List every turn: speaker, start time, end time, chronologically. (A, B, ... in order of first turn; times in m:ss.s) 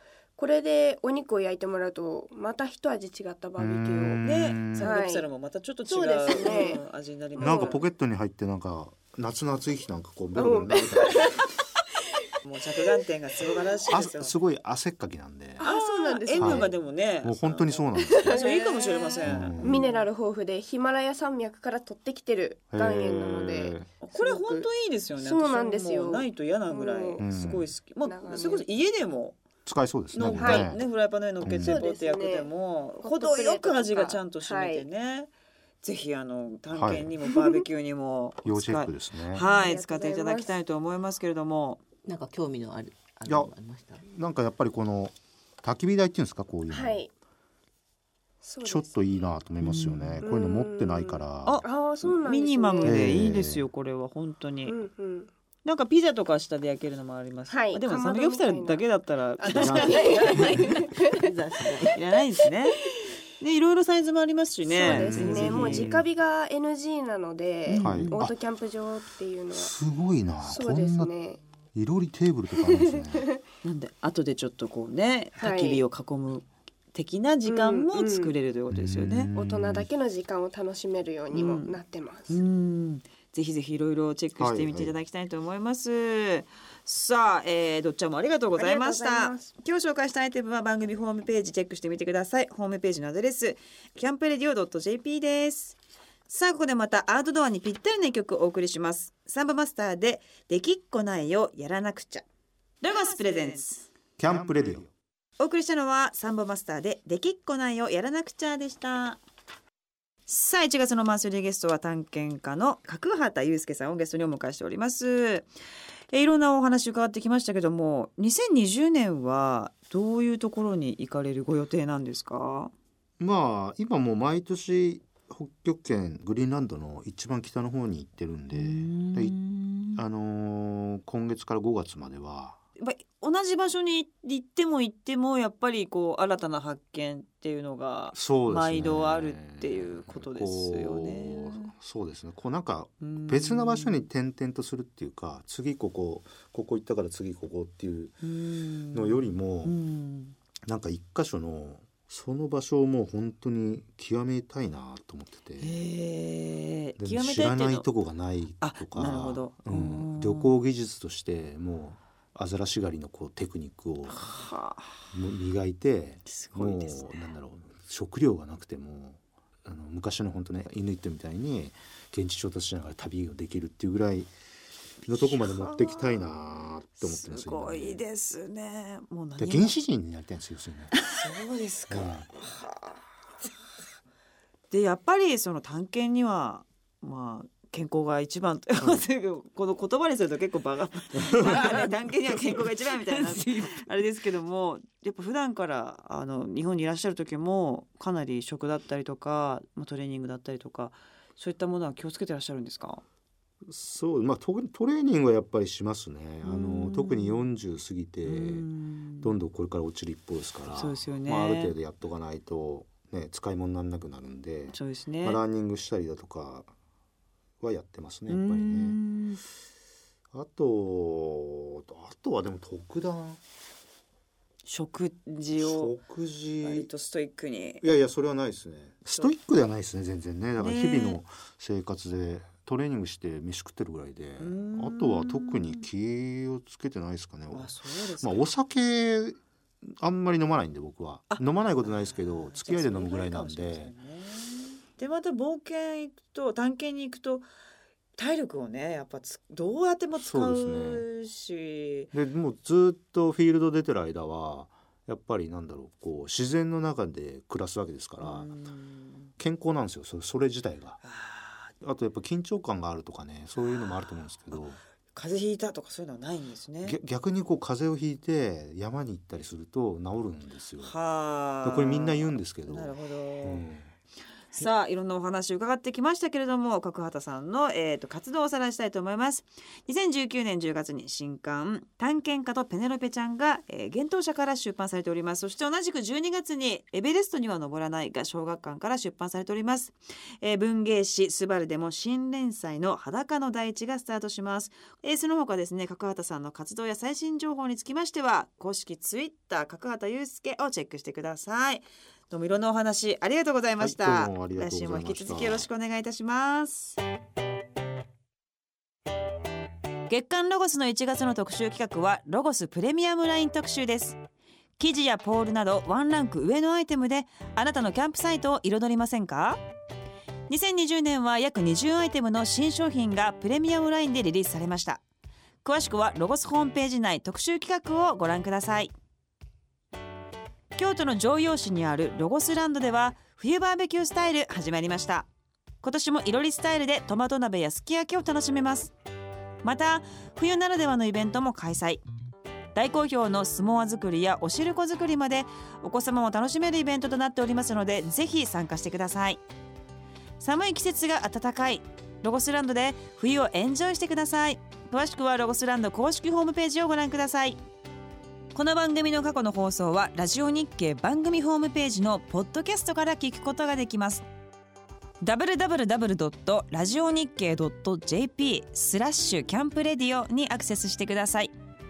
0:00.4-0:04.2 A
0:03.6-0:05.0 B
0:04.2-0:07.8 C
0:04.8-0:05.3 A
0:05.9-0:06.8 A
0:07.4-0:07.8 A
0:07.4-0:11.4 B
0:10.4-0:11.4 A
0:12.4-0:14.4 C
0:13.9-0:15.7 B
0:15.6-0:16.7 A
0:15.6-0:20.0 C
0:16.4-0:18.5 B
0:18.0-0:27.2 A
0:19.2-0:19.9 B
0:22.7-0:23.9 B
0:24.0-0:29.4 C
0:27.2-0:27.7 B
0:28.0-0:28.6 A
0:29.7-0:30.8 B
0:30.1-0:35.3 C
0:30.2-0:30.8 A
0:31.4-0:31.8 B
0:31.5-0:34.9 A
0:35.8-0:41.8 C
0:36.7-0:37.1 B
0:38.4-0:39.4 B
0:39.4-0:40.6 A
0:42.1-0:44.0 D
0:44.0-0:47.0 B
0:46.7-0:47.1 A
0:48.4-0:48.9 A
0:48.6-0:51.6 B
0:49.6-0:50.2 C
0:50.2-0:53.3 A
0:51.4-0:54.8 C
0:52.8-0:53.6 B
0:54.7-0:55.3 A
0:55.6-1:00.8 C
0:57.5-0:58.8 A
0:59.4-1:01.3 A
0:59.6-1:00.8 B
0:59.9-1:02.0 D
1:01.9-1:02.8 C
1:03.4-1:05.9 C
1:04.7-1:09.7 A
1:04.8-1:06.1 B
1:07.7-1:08.2 C
1:07.8-1:08.4 B
1:09.5-1:11.1 B
1:10.4-1:11.4 A
1:11.8-1:13.3 B
1:12.6-1:13.4 A
1:13.6-1:19.3 C
1:15.4-1:15.8 A
1:17.5-1:18.3 A
1:18.7-1:19.9 B
1:19.4-1:22.4 A
1:21.3-1:35.8 C
1:24.4-1:24.9 B
1:28.6-1:29.5 A
1:36.3-1:42.2 C
1:42.8-1:43.9 C
1:44.2-1:44.9 B
1:45.4-1:49.2 C
1:50.3-1:55.5 C
1:56.1-2:02.7 C
2:03.2-2:09.4 B
2:08.5-2:10.0 C
2:10.0-2:12.6 B
2:12.8-2:21.7 C
2:18.1-2:28.2 B
2:23.0-2:24.1 C
2:28.2-2:30.4 C
2:28.9-2:29.8 B
2:30.6-2:35.8 B
2:35.6-2:37.9 C
2:37.0-2:44.3 B
2:38.6-2:40.6 C
2:44.1-2:45.0 C
2:45.1-2:54.3 B
2:46.3-2:47.3 C
2:55.0-2:58.0 B
2:55.1-2:56.3 C
2:57.0-2:59.8 C
2:59.4-3:01.0 B
3:01.0-3:03.0 C
3:01.9-3:02.3 B
3:04.7-3:23.0 C
3:08.8-3:09.0 B
3:11.2-3:11.8 B
3:23.6-3:28.7 B
3:26.4-3:27.5 C
3:28.2-3:29.3 C
3:29.2-3:36.7 B
3:30.8-3:31.8 C
3:34.7-3:35.4 C
3:37.6-3:39.0 B
3:38.3-3:39.4 C
3:40.3-3:43.4 B
3:44.7-3:45.9 C
3:45.5-3:46.9 B
3:46.6-3:47.9 C
3:47.8-4:03.9 B
3:50.6-3:51.2 C
3:54.4-3:55.9 C
3:57.5-3:58.4 C
4:01.3-4:07.5 C
4:08.2-4:12.1 C
4:10.2-4:11.1 B
4:12.1-4:18.5 B
4:18.2-4:19.3 C
4:19.4-4:21.0 B
4:21.0-4:21.7 C
4:21.8-4:24.8 B
4:23.6-4:24.3 C
4:25.1-4:27.0 C
4:26.8-4:30.9 B
4:30.8-4:33.7 C
4:31.6-4:33.9 B
4:34.5-5:07.0 C
5:03.8-5:05.7 B
5:10.1-5:14.2 C
5:14.8-5:19.6 C
5:20.5-5:25.0 C
5:25.6-5:28.9 C
5:30.8-5:35.3 C
5:35.8-5:38.9 C
5:39.6-5:42.0 C
5:42.8-5:49.4 C
5:50.4-5:57.6 C
5:58.6-6:04.2 C
6:05.2-6:11.5 C